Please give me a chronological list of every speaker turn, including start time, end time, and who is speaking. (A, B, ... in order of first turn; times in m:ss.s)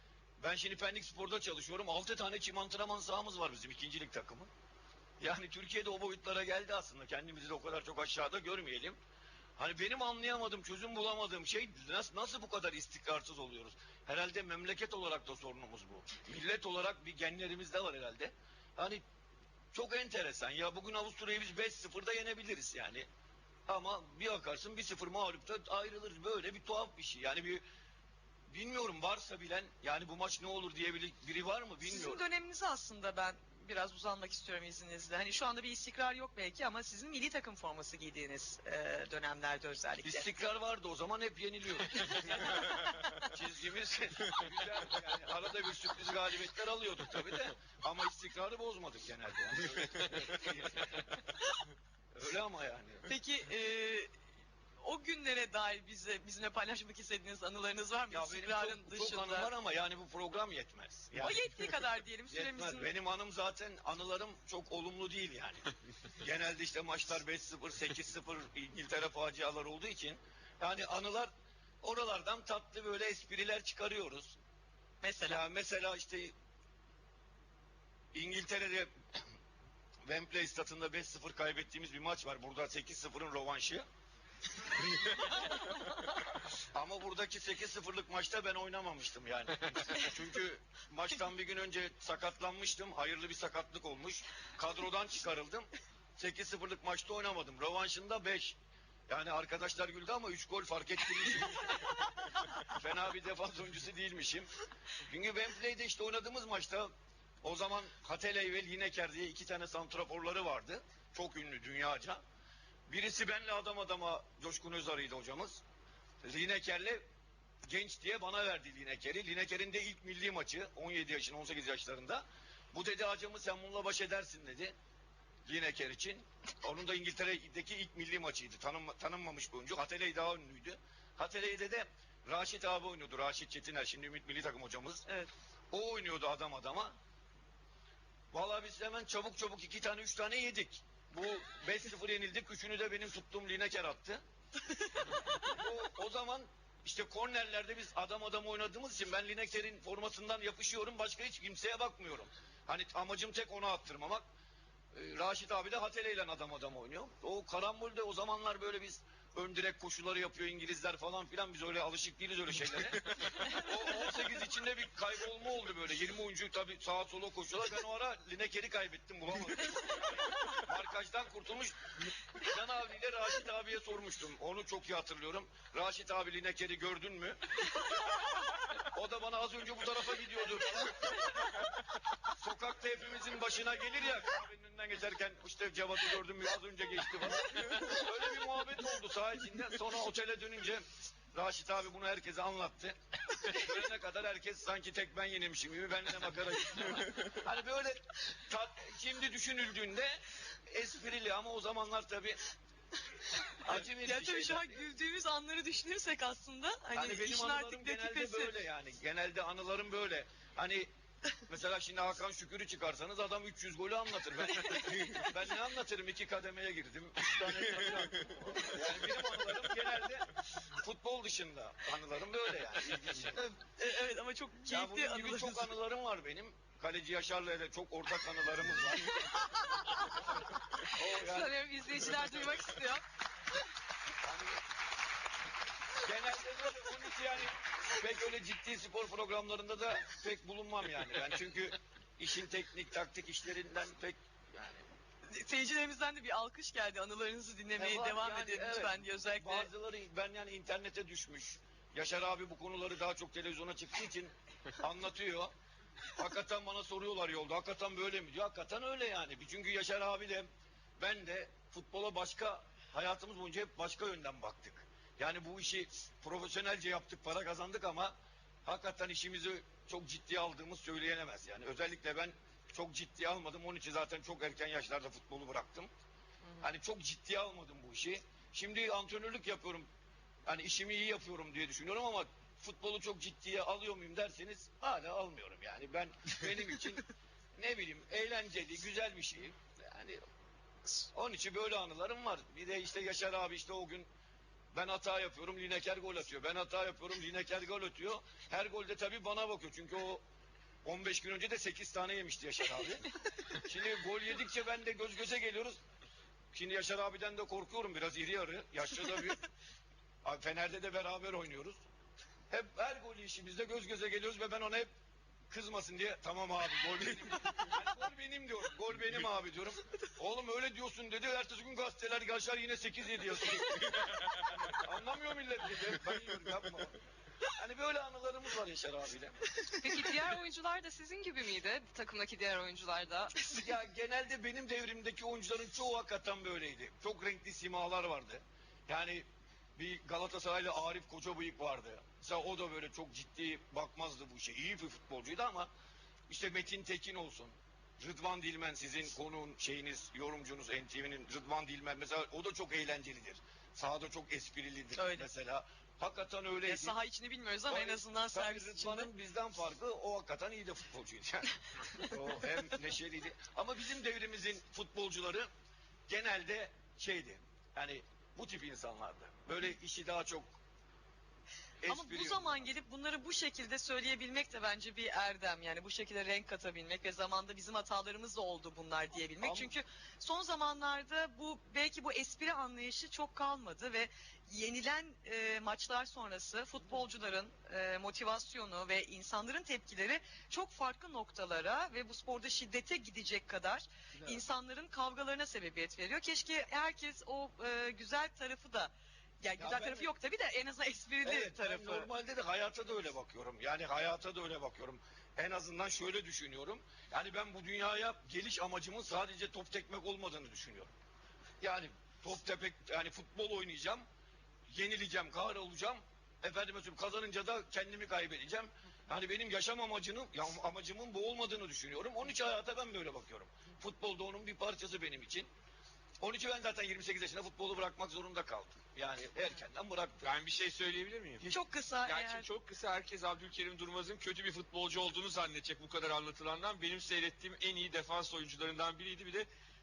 0:00.4-0:04.5 A
0:05.2-0:09.0 A
0:09.6-0:19.0 A
0:19.7-0:23.1 A
0:23.7-0:27.6 A
0:28.5-0:32.2 A
0:31.9-0:40.3 B
0:40.0-0:51.1 A
0:52.2-0:53.0 A
0:53.1-0:54.1 B
0:54.8-0:59.5 B
0:58.1-1:01.7 A
1:01.2-1:02.9 B
1:02.3-1:05.7 A
1:06.2-1:11.3 A
1:11.8-1:14.4 A
1:15.0-1:15.4 B
1:15.2-1:16.3 A
1:18.1-1:18.9 A
1:20.1-1:23.9 A
1:26.8-1:38.6 A
1:39.1-1:41.8 A
1:42.5-1:44.5 A
1:45.1-1:46.9 A
1:47.4-1:52.2 A
1:52.9-1:55.6 A
1:56.2-1:57.0 A
1:57.7-2:04.7 A
2:05.5-2:15.0 A
2:15.7-2:17.0 A
2:18.3-2:24.2 A
2:25.3-2:34.2 A
2:34.9-2:51.8 A
2:52.4-2:57.7 A
2:58.9-3:01.3 A
3:02.4-3:22.4 A
3:23.6-3:24.8 A
3:23.7-3:28.5 B
3:27.0-3:30.9 A
3:31.5-3:43.4 A
3:34.6-3:35.1 B
3:37.4-3:38.6 C
3:37.8-3:38.1 D
3:43.2-3:45.7 B
3:44.7-3:49.3 A
3:49.1-3:50.2 B
3:50.8-3:53.0 B
3:50.9-3:51.6 A
3:54.2-3:54.6 A
3:56.0-4:04.9 A
4:05.3-4:09.7 B
4:07.8-4:15.5 A
4:16.1-4:20.5 A
4:21.0-4:35.9 A
4:36.6-4:39.9 A
4:40.5-4:47.0 A
4:47.6-4:50.2 A
4:51.0-4:54.1 A
4:54.7-5:00.2 A
5:00.8-5:05.8 A
5:06.5-5:09.4 A
5:10.2-5:11.8 A
5:12.5-5:14.9 A
5:15.5-5:29.5 A
5:29.8-5:33.3 C
5:33.4-5:45.7 A
5:46.3-5:57.0 A
5:55.0-5:55.3 B
5:56.6-5:59.1 B
5:57.7-6:05.5 A
6:06.1-6:10.6 A
6:11.8-6:12.7 A
6:11.9-6:42.1 B
6:19.4-6:19.7 A
6:34.2-6:34.4 A
6:39.6-6:40.1 A
6:41.2-6:50.9 A
6:51.6-6:54.0 A
6:54.7-7:05.5 A
7:06.2-7:10.3 A
7:10.2-7:11.4 D
7:11.4-7:12.5 B
7:12.0-7:19.5 D